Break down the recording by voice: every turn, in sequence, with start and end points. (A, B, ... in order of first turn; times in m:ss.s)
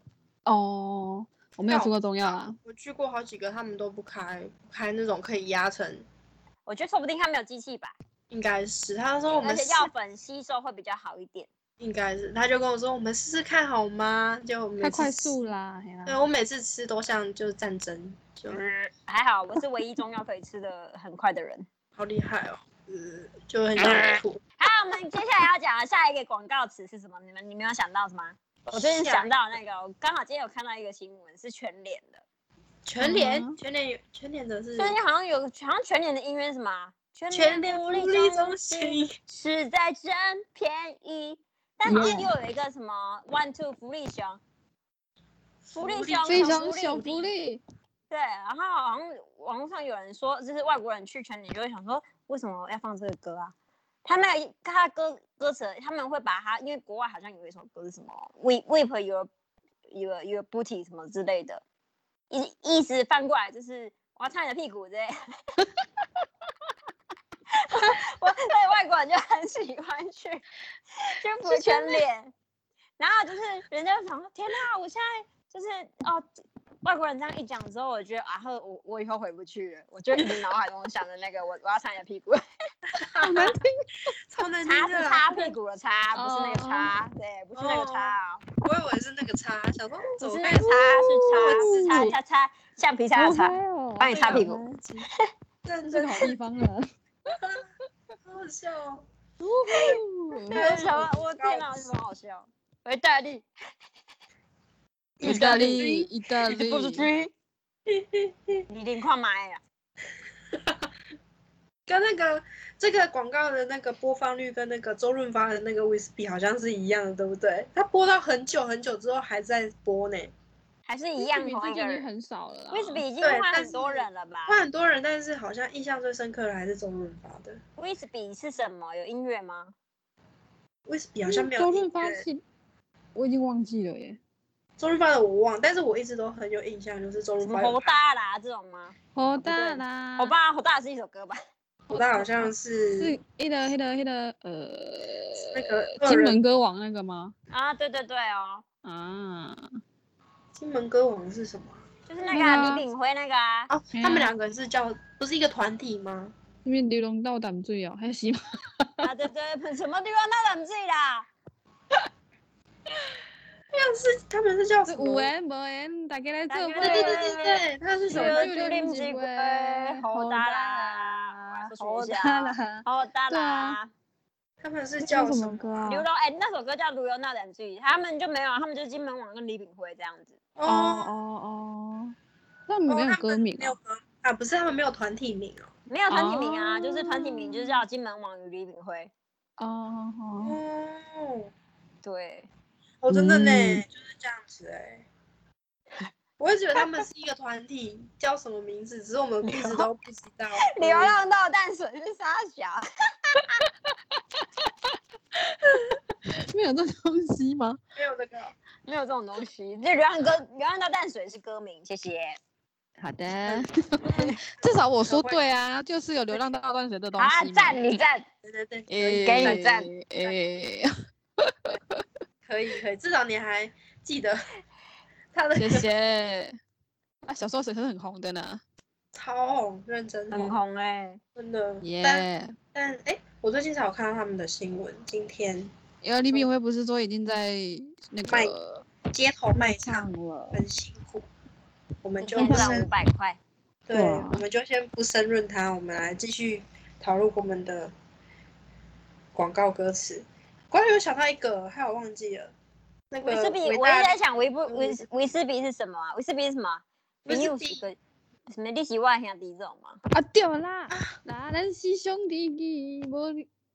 0:00.4-0:02.6 A
0:01.7-0:06.0 B
0:06.6-0:08.0 C
0:08.3-0:09.9 B
0:09.3-0:11.5 C
0:11.8-0:15.4 B
0:14.8-0:16.2 A
0:16.1-0:18.6 B
0:18.5-0:21.7 C
0:22.0-0:24.4 B
0:23.8-0:32.2 C
0:28.7-0:29.3 B
0:32.8-0:35.0 B
0:33.0-0:33.5 A
0:34.7-0:44.4 C
0:37.3-0:39.1 B
0:41.8-0:42.3 A
0:45.7-0:46.6 B
0:45.7-0:47.3 C
0:46.2-0:47.6 A
0:48.1-0:53.5 C
0:54.0-0:59.3 C
0:59.9-1:01.6 C
1:02.3-1:05.1 C
1:07.5-1:10.4 C
1:11.0-1:12.3 C
1:11.4-1:12.0 A
1:13.0-1:16.2 C
1:16.8-1:22.4 C
1:22.9-1:23.5 B
1:23.2-1:23.7 A
1:24.3-1:25.5 B
1:24.6-1:28.4 C
1:26.1-1:26.9 A
1:27.6-1:30.7 B
1:30.2-1:34.6 C
1:30.6-1:32.2 A
1:31.3-1:32.1 B
1:33.1-1:34.8 A
1:34.1-1:35.0 B
1:35.6-1:36.3 B
1:35.9-1:36.8 A
1:37.3-1:37.6 B
1:38.2-1:39.0 B
1:39.4-1:40.6 A
1:39.7-1:43.5 C
1:40.5-1:41.9 B
1:45.2-1:46.1 B
1:45.2-1:45.6 C
1:45.2-1:47.1 A
1:46.5-1:47.3 C
1:47.9-1:48.6 B
1:48.7-1:49.6 C
1:51.9-2:00.3 B
2:00.8-2:02.0 C
2:01.2-2:03.0 A
2:02.7-2:04.6 C
2:03.2-2:07.6 B
2:07.8-2:09.7 C
2:10.9-2:12.2 B
2:11.2-2:12.4 A
2:13.1-2:14.2 A
2:14.8-2:17.9 B
2:17.4-2:21.4 C
2:19.1-2:20.4 A
2:21.9-2:23.2 B
2:21.9-2:27.3 A
2:25.4-2:26.4 B
2:27.5-2:28.6 C
2:28.8-2:29.6 A
2:30.5-2:31.8 B
2:32.1-2:33.7 C
2:32.3-2:32.8 A
2:33.7-2:36.3 B
2:34.0-2:34.3 A
2:36.6-2:38.4 A
2:39.0-2:41.3 C
2:43.7-2:45.3 B
2:44.8-2:47.4 A
2:46.5-2:53.9 C
2:46.8-2:48.5 B
2:48.1-2:53.8 A
2:54.6-2:55.9 B
2:55.0-2:56.1 A
2:55.8-3:00.4 C
3:00.6-3:01.1 B
3:00.6-3:02.1 A
3:02.7-3:03.8 A
3:02.9-3:05.7 B
3:05.9-3:09.1 C
3:06.1-3:07.8 A
3:09.6-3:10.6 A
3:10.4-3:11.5 B
3:12.0-3:12.5 C
3:13.0-3:15.0 B
3:13.1-3:13.8 A
3:16.4-3:21.2 B
3:19.4-3:19.9 C
3:20.7-3:23.6 C
3:24.2-3:24.7 A
3:25.5-3:27.8 A
3:28.0-3:28.5 B
3:28.8-3:32.4 C
3:33.0-3:37.8 A
3:33.4-3:34.3 B
3:35.0-3:35.4 B
3:37.2-3:38.3 C
3:38.4-3:39.6 B
3:38.9-3:40.9 A
3:39.2-3:39.9 C
3:41.4-3:42.0 A
3:42.4-3:44.4 B
3:45.3-3:45.9 B
3:45.6-3:46.5 A
3:47.2-3:48.6 A
3:49.1-3:50.6 B
3:50.3-3:51.2 C
3:51.4-3:55.7 B
3:51.8-3:52.6 A
3:56.0-3:58.8 A
3:56.3-3:56.5 B
3:58.2-3:58.5 B
3:59.1-4:01.3 B
3:59.5-4:00.6 A
4:02.0-4:02.9 B
4:02.2-4:03.4 C
4:02.4-4:02.8 A
4:03.9-4:07.9 B
4:03.9-4:04.4 A
4:09.3-4:12.5 B
4:13.1-4:15.0 B
4:13.2-4:18.0 C
4:17.2-4:17.8 B
4:18.5-4:20.0 C
4:20.1-4:23.4 A
4:20.9-4:21.2 B